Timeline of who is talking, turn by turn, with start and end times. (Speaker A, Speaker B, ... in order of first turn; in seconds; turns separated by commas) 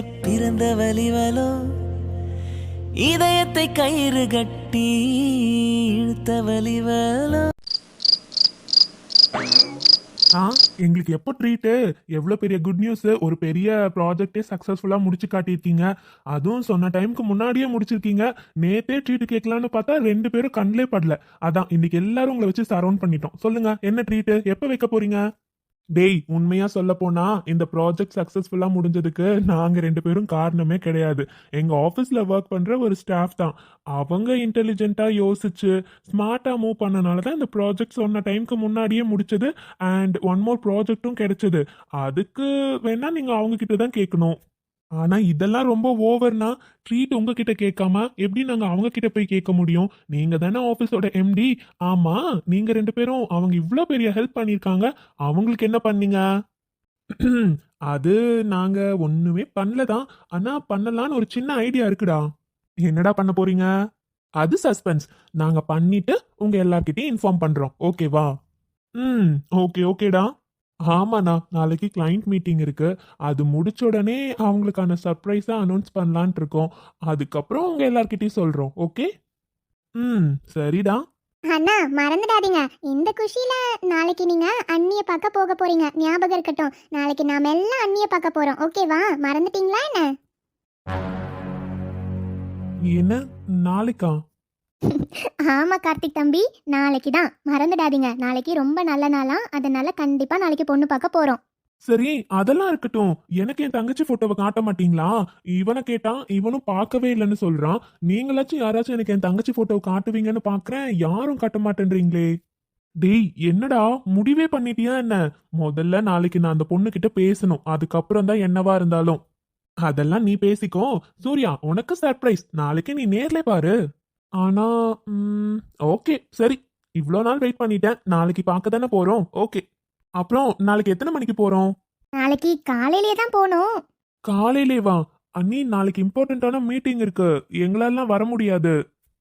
Speaker A: 0.2-1.5, Speaker A: 3.0-4.9, Speaker A: 5.4-7.5, Speaker B: 10.3-25.2, Speaker B: 25.9-44.4, Speaker B: 45.0-56.2, Speaker B: 57.1-62.2, Speaker B: 62.9-63.7, Speaker B: 64.4-68.3, Speaker B: 69.0-70.3, Speaker B: 70.9-79.1, Speaker B: 80.0-81.0, Speaker C: 81.5-90.1, Speaker B: 92.9-94.2, Speaker C: 94.9-101.4, Speaker B: 101.9-112.3, Speaker B: 113.0-119.2, Speaker B: 119.8-123.7, Speaker B: 124.4-129.6, Speaker B: 130.2-131.7, Speaker C: 132.2-133.7, Speaker B: 134.3-138.7